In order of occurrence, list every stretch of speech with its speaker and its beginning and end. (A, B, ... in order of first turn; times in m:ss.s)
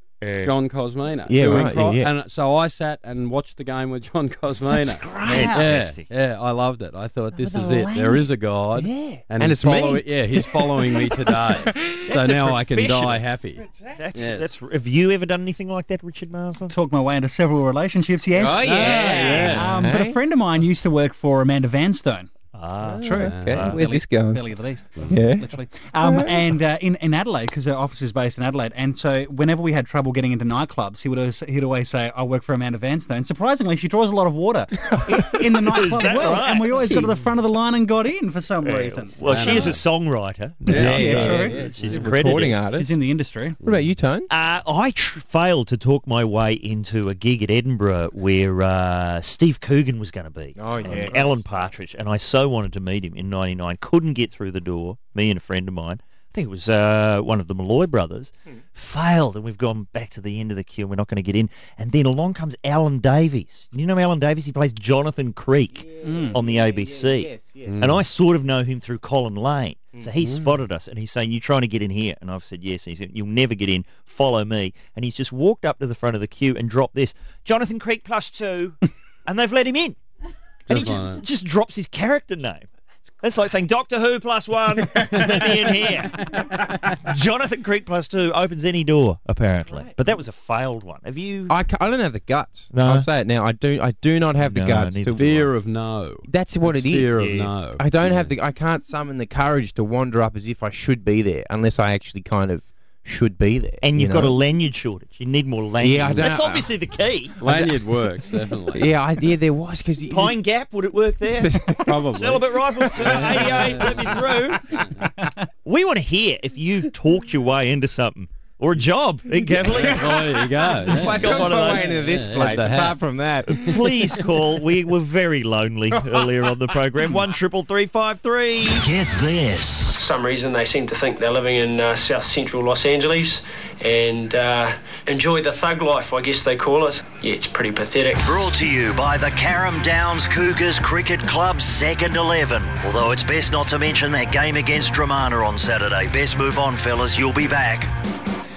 0:00.2-0:00.5 A
0:00.4-0:14.5 B
0:01.3-0:02.1 C
0:04.8-0:05.7 C
0:05.2-0:06.1 A
0:07.3-0:12.1 C
0:12.0-0:13.3 A
0:13.9-0:16.8 A
0:16.7-0:22.3 D
0:18.4-0:20.2 C
0:18.6-0:19.8 B
0:18.8-0:19.6 A
0:22.6-0:23.8 A
0:22.9-0:24.4 C
0:23.0-0:39.2 D
0:23.2-0:23.7 B
0:25.1-0:26.4 C
0:35.7-0:37.1 A
0:38.6-0:42.6 A
0:39.3-0:39.8 B
0:40.7-0:43.0 C
0:40.7-0:41.7 D
0:40.8-0:41.0 B
0:42.7-0:43.6 D
0:43.6-0:44.3 C
0:43.6-0:43.9 B
0:44.3-1:20.0 A
0:50.6-0:51.5 C
1:06.0-1:06.4 D
1:06.5-1:07.8 C
1:07.6-1:08.0 B
1:20.7-1:21.2 B
1:20.7-1:22.7 A
1:23.2-1:26.3 A
1:25.0-1:25.3 C
1:27.0-1:31.6 A
1:31.5-1:35.2 C
1:32.7-1:33.1 A
1:34.4-1:35.5 A
1:35.2-1:38.3 B
1:36.3-1:37.2 C
1:37.1-1:37.6 A
1:37.8-1:44.4 C
1:43.8-1:47.4 A
1:45.8-1:46.7 C
1:47.4-1:48.9 B
1:47.4-1:47.8 C
1:48.7-1:50.4 C
1:50.1-1:51.6 A
1:51.4-1:52.0 C
1:51.9-1:54.2 B
1:52.1-1:54.7 A
1:53.0-1:53.8 C
1:54.7-1:55.0 B
1:55.6-2:02.0 A
1:59.5-2:03.8 C
1:59.6-2:03.0 B
2:03.5-2:08.9 A
2:08.7-2:10.0 E
2:10.0-2:18.2 F
2:18.2-2:27.9 E